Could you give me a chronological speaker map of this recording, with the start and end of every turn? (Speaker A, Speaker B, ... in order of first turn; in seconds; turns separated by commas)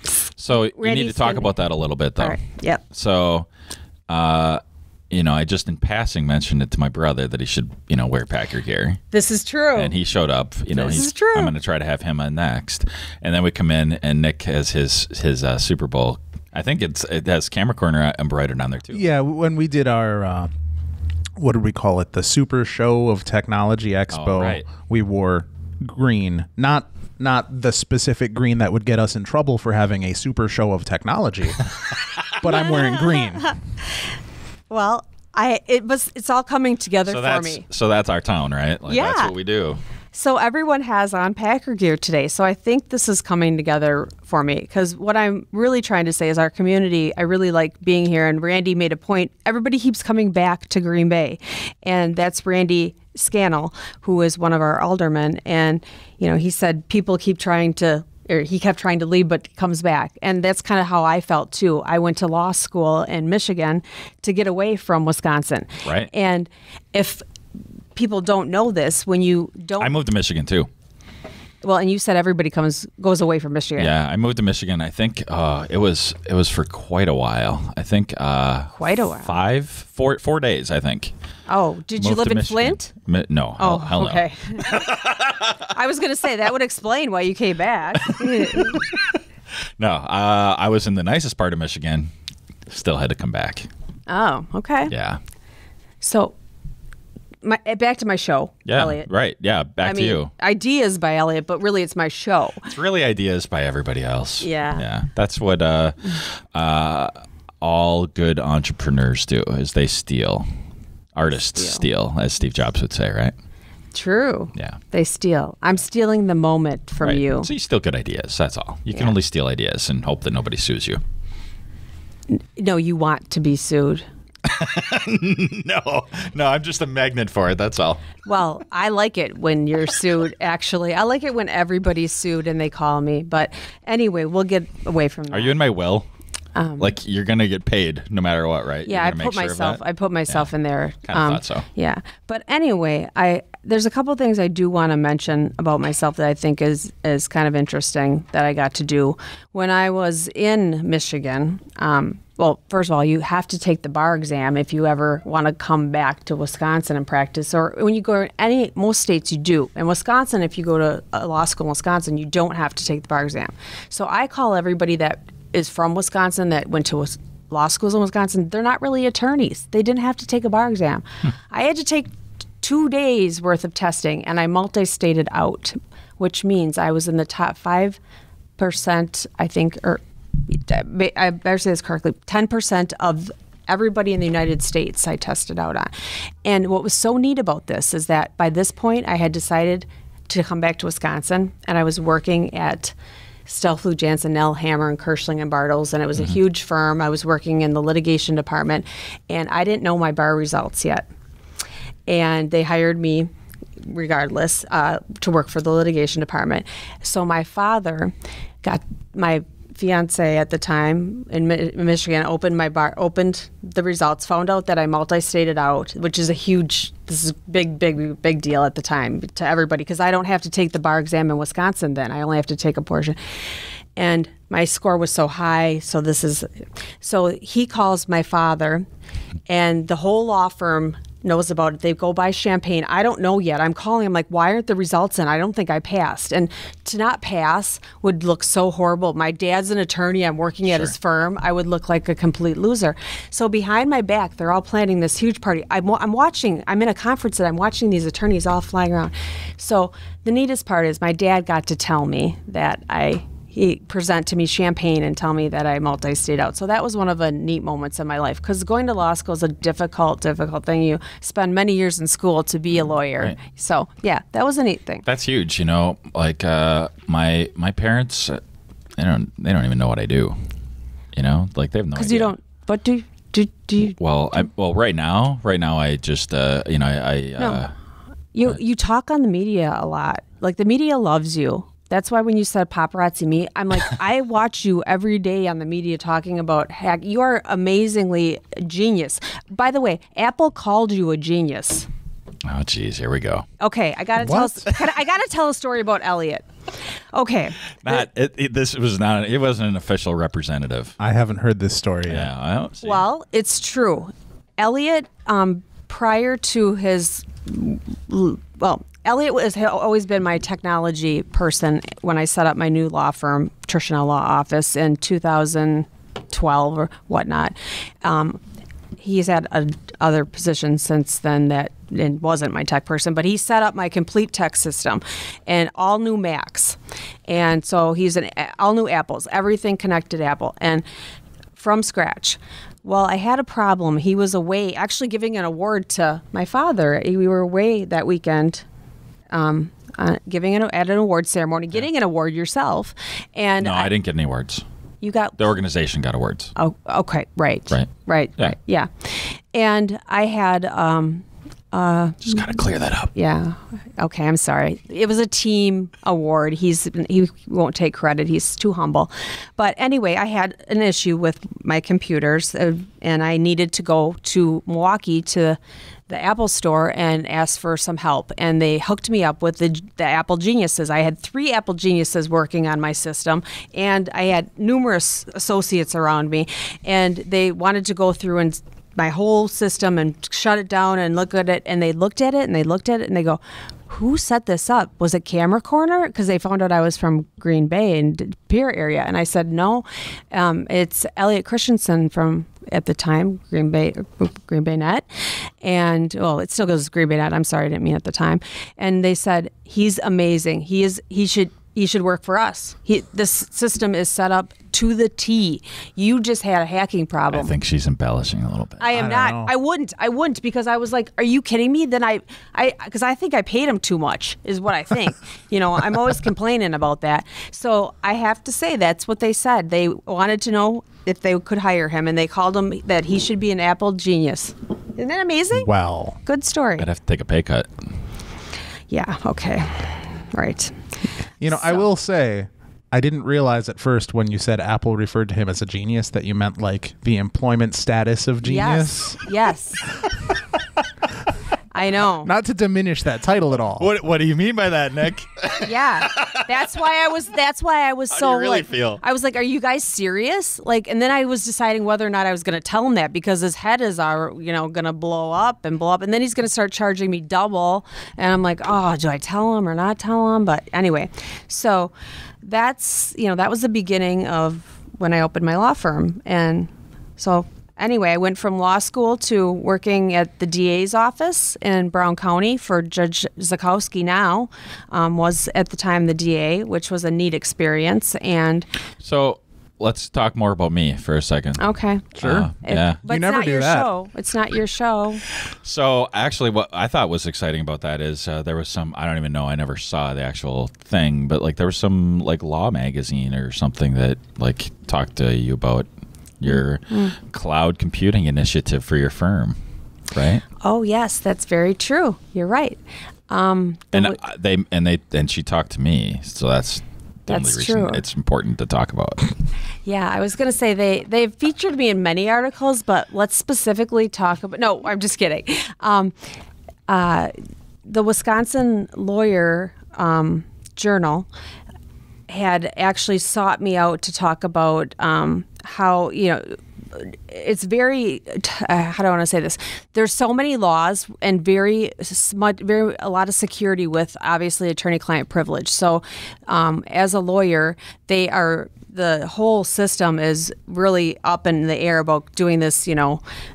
Speaker A: 0.4-2.4, Speaker B: 0.7-1.5, Speaker B: 2.2-2.8, Speaker A: 2.9-3.5, Speaker A: 4.1-9.0, Speaker B: 9.1-9.9, Speaker A: 9.8-19.0, Speaker B: 10.7-11.5, Speaker C: 18.9-20.5, Speaker C: 21.4-31.7, Speaker A: 24.1-24.7, Speaker C: 32.4-33.5, Speaker B: 32.4-34.1, Speaker B: 34.7-37.6, Speaker A: 37.0-39.8, Speaker B: 38.9-39.3, Speaker B: 40.1-67.2, Speaker B: 67.9-69.9, Speaker A: 69.8-70.7, Speaker B: 71.6-73.9, Speaker A: 73.8-81.1, Speaker B: 78.7-79.3, Speaker B: 81.5-82.9, Speaker A: 82.0-85.7, Speaker B: 83.6-84.9, Speaker B: 85.7-88.8, Speaker A: 88.0-89.0, Speaker A: 89.8-92.1, Speaker A: 92.7-93.7, Speaker B: 94.1-94.9, Speaker A: 94.9-95.2, Speaker B: 96.0-96.3, Speaker B: 97.4-99.1, Speaker A: 98.7-100.3, Speaker B: 99.8-102.7, Speaker A: 102.7-110.5, Speaker B: 104.4-104.8, Speaker A: 111.1-113.3, Speaker B: 111.5-111.8, Speaker B: 113.9-117.5, Speaker A: 117.0-121.0, Speaker B: 122.3-124.0, Speaker A: 124.5-128.0, Speaker B: 128.2-135.6, Speaker A: 135.3-136.1, Speaker B: 136.5-136.9, Speaker A: 136.8-140.5, Speaker B: 138.8-172.1, Speaker A: 141.1-141.6, Speaker B: 172.6-178.0, Speaker B: 178.6-185.9, Speaker B: 186.4-192.9, Speaker B: 193.4-201.1, Speaker B: 202.1-223.2, Speaker B: 223.9-228.8, Speaker B: 229.5-265.0, Speaker A: 240.7-240.9, Speaker A: 265.1-268.4, Speaker A: 269.0-270.4, Speaker A: 271.1-272.3, Speaker B: 271.9-274.0, Speaker A: 274.0-277.7, Speaker B: 278.3-291.9, Speaker A: 292.4-293.4, Speaker B: 293.6-296.5, Speaker C: 294.2-294.6, Speaker B: 297.1-298.0, Speaker A: 297.8-300.9, Speaker C: 301.0-302.3, Speaker A: 302.1-303.0, Speaker B: 302.8-318.4, Speaker B: 319.0-330.9, Speaker B: 331.6-338.6, Speaker B: 339.3-343.9, Speaker A: 343.6-344.6, Speaker B: 345.0-345.4, Speaker A: 345.4-346.5, Speaker B: 346.6-352.4, Speaker A: 347.7-348.5, Speaker A: 352.2-353.1, Speaker B: 353.1-407.5, Speaker A: 407.3-408.9, Speaker B: 408.8-425.7, Speaker C: 408.9-409.5, Speaker C: 425.6-426.2, Speaker B: 426.2-426.9, Speaker A: 426.8-427.7, Speaker B: 428.9-430.9, Speaker C: 431.4-439.2, Speaker B: 431.4-431.8, Speaker B: 438.4-439.9, Speaker B: 441.7-442.3, Speaker C: 442.2-443.9, Speaker A: 443.8-446.4, Speaker B: 445.6-461.9, Speaker A: 448.1-449.0, Speaker B: 462.4-478.7, Speaker A: 479.0-483.0, Speaker B: 481.6-482.1, Speaker C: 482.2-482.5, Speaker B: 482.6-485.2, Speaker C: 483.0-483.9, Speaker A: 485.6-495.9, Speaker A: 496.4-499.6, Speaker B: 496.5-497.1, Speaker A: 500.1-500.4, Speaker B: 500.6-504.2, Speaker A: 503.9-509.3, Speaker B: 507.3-508.0, Speaker B: 509.8-516.1, Speaker B: 516.9-517.3, Speaker B: 517.8-521.3, Speaker B: 522.3-543.2